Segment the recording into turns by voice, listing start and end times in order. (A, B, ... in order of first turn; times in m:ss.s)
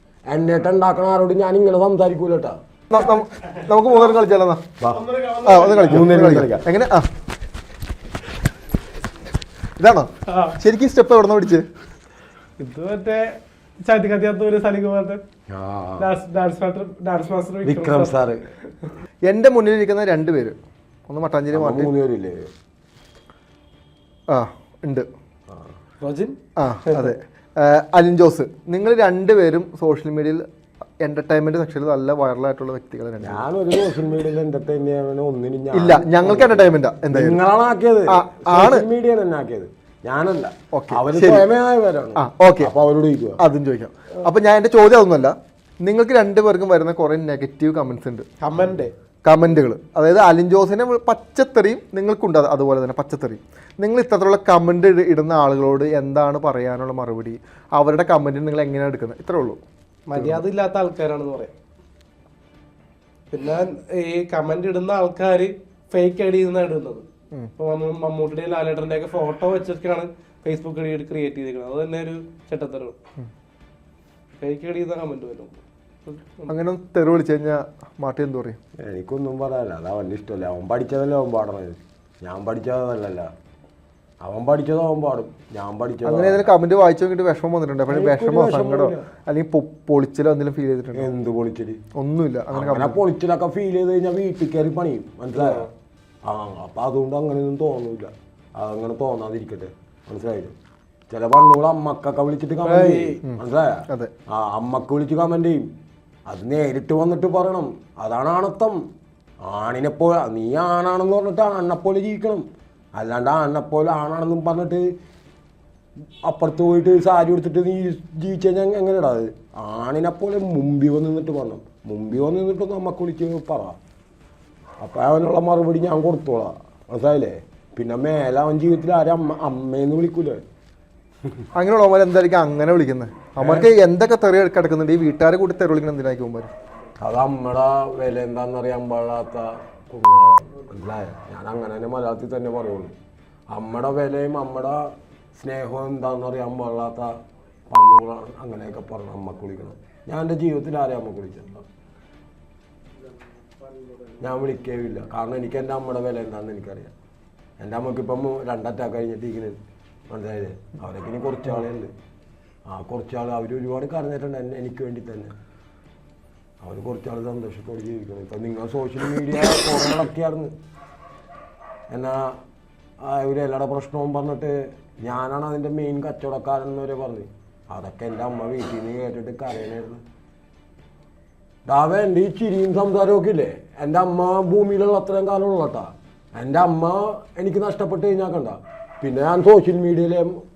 0:00.3-0:02.6 A
0:02.9-0:07.1 B
0:04.8-0:05.1 A
0:05.8-0:06.7 A
0:09.8-0:11.6 B
0:10.3-0:10.6 C
0:12.6-0:15.2 C
0:15.5-0:16.1 A
0:16.0-0:18.1 C
0:17.6-0:18.4 A
0:19.2-0:20.6 B
0:21.1-0:21.9 B
0:21.5-0:22.5 A
0:24.3-0:25.1 B
0:26.0-0:27.1 C
0:26.6-0:30.4 B
0:31.0-0:33.5 B
0:33.2-0:43.4 A
0:35.7-0:37.4 B
0:38.1-0:38.9 B
0:40.7-0:41.4 B
0:42.2-0:42.7 B
0:43.4-0:48.3 B
0:48.4-0:48.9 C
0:49.2-0:59.6 B
1:00.1-1:01.5 C
1:03.3-1:07.0 C
1:07.6-1:13.0 C
1:14.4-1:16.5 C
1:16.5-1:18.6 B
1:18.8-1:23.3 A
1:24.2-1:26.5 A
1:26.0-1:31.1 B
1:27.9-1:29.1 A
1:30.9-1:31.8 A
1:31.9-1:33.0 B
1:32.5-1:35.7 A
1:35.3-1:35.7 C
1:36.2-1:40.5 A
1:41.1-1:45.7 A
1:42.6-1:43.2 C
1:43.2-1:44.1 B
1:46.3-1:48.8 A
1:49.4-1:54.9 A
1:56.2-2:03.8 A
2:04.8-2:10.4 A
2:11.5-2:16.5 B
2:13.4-2:13.7 A
2:17.0-2:22.9 A
2:23.5-2:27.2 A
2:27.7-2:31.6 A
2:34.2-2:36.9 A
2:37.6-2:39.6 A
2:40.1-2:41.9 A
2:42.7-2:45.3 A
2:46.6-2:50.5 A
2:51.9-2:52.4 A
2:53.0-3:00.0 A
3:01.7-3:10.4 A